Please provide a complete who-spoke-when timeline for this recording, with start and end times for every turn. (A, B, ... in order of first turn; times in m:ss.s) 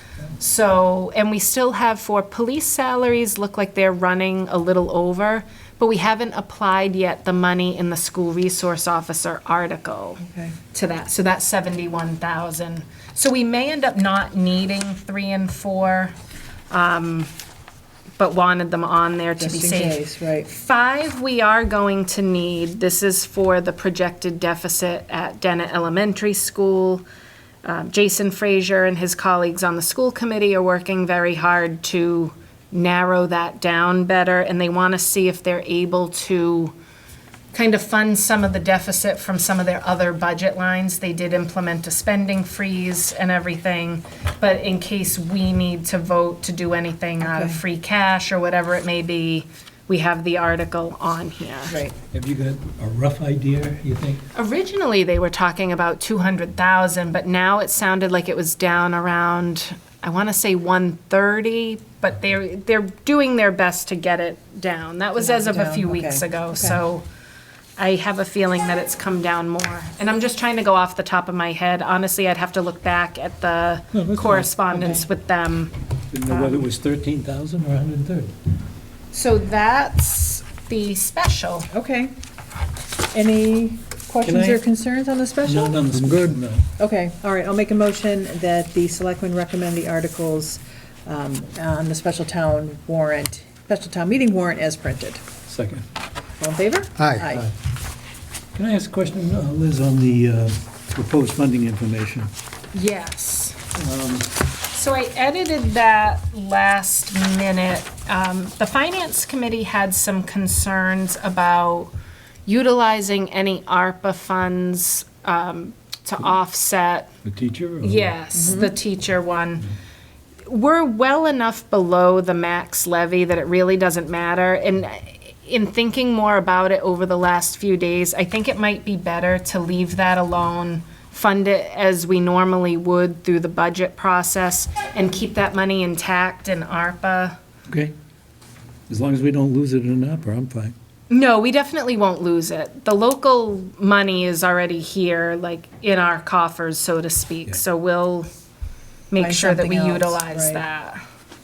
0:00.4-0:16.1 A
0:10.2-0:10.6 B
0:16.7-0:17.3 A
0:18.2-0:27.0 A
0:19.4-0:20.5 B
0:27.6-0:36.7 A
0:37.5-0:51.8 A
0:47.2-0:47.6 B
0:51.7-0:51.9 B
0:52.1-0:54.2 C
0:54.3-1:07.0 A
1:05.2-1:06.8 B
1:07.8-1:15.7 A
1:13.9-1:15.0 C
1:16.1-1:18.3 C
1:16.3-1:16.7 A
1:19.1-1:21.7 A
1:21.7-1:22.1 B
1:23.1-1:26.2 B
1:24.2-1:24.6 C
1:25.4-1:26.7 C
1:26.8-1:35.2 B
1:35.5-1:35.8 C
1:36.4-1:37.5 B
1:38.5-1:42.3 C
1:42.7-1:43.6 A
1:43.7-1:44.3 C
1:44.7-1:51.9 A
1:52.4-1:57.1 A
1:57.2-1:58.1 C
1:57.8-1:59.7 A
1:58.3-1:58.7 B
2:00.4-2:17.4 A
2:17.7-2:17.9 C
2:18.9-2:20.7 C
2:21.1-2:28.3 A
2:29.1-2:31.0 A
2:29.2-2:30.6 B